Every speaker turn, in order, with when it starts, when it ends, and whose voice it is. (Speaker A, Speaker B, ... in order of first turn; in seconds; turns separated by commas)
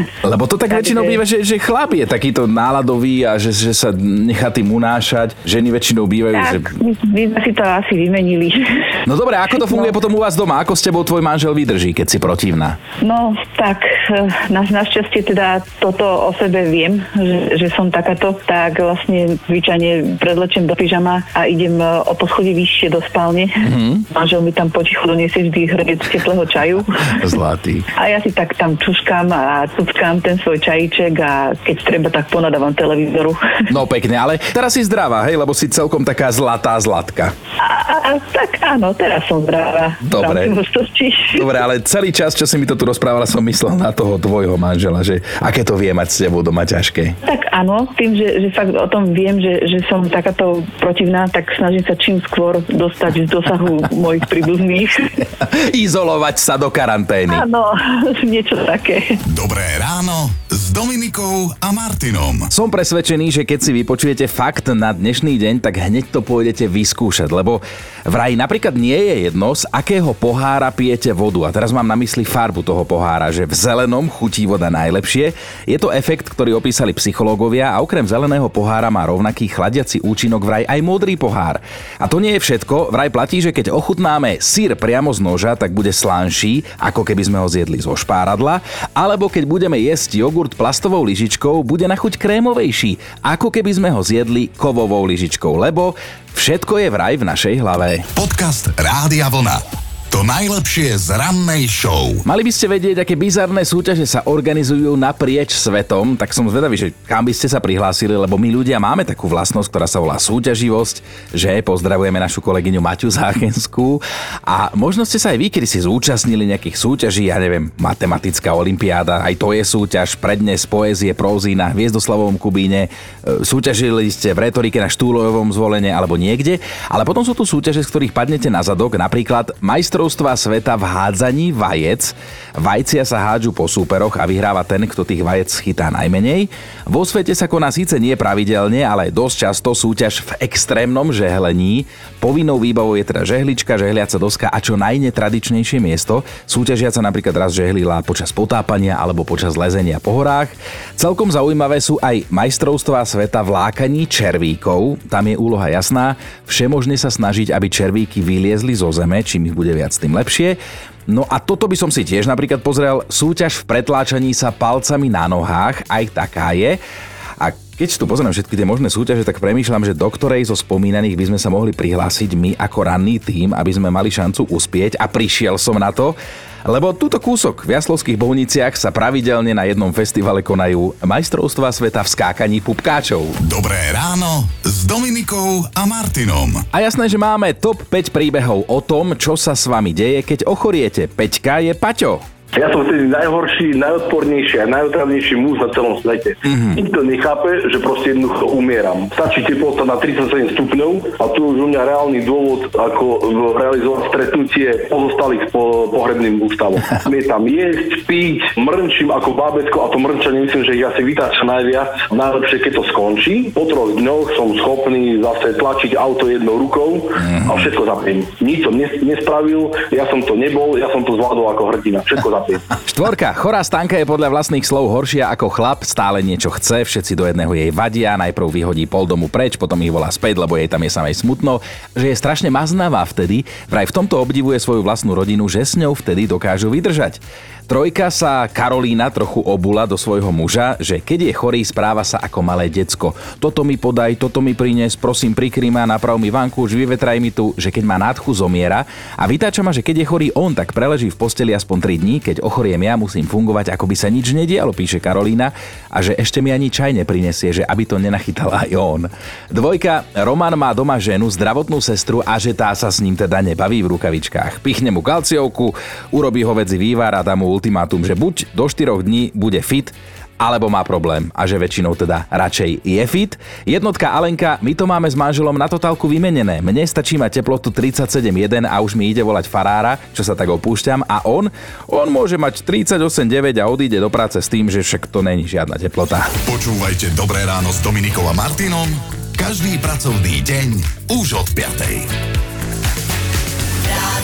Speaker A: 0.2-6.7, Speaker B: 0.7-1.2, Speaker B: 6.3-9.0, Speaker A: 9.1-12.8, Speaker B: 9.6-9.9, Speaker B: 13.0-27.2, Speaker A: 23.6-24.0, Speaker A: 27.1-27.9, Speaker B: 27.9-33.6, Speaker A: 33.7-37.3, Speaker B: 37.6-41.5, Speaker A: 40.0-40.6, Speaker A: 41.3-47.1, Speaker B: 47.2-55.1, Speaker A: 55.4-57.4, Speaker B: 57.3-59.2, Speaker C: 59.3-62.5, Speaker A: 62.5-98.0, Speaker C: 98.1-102.2, Speaker A: 102.2-166.8, Speaker A: 167.4-183.3, Speaker C: 183.4-186.7, Speaker A: 186.7-192.2, Speaker D: 192.5-222.6, Speaker A: 196.4-196.8, Speaker A: 217.2-217.7, Speaker A: 222.8-286.3, Speaker C: 286.4-292.1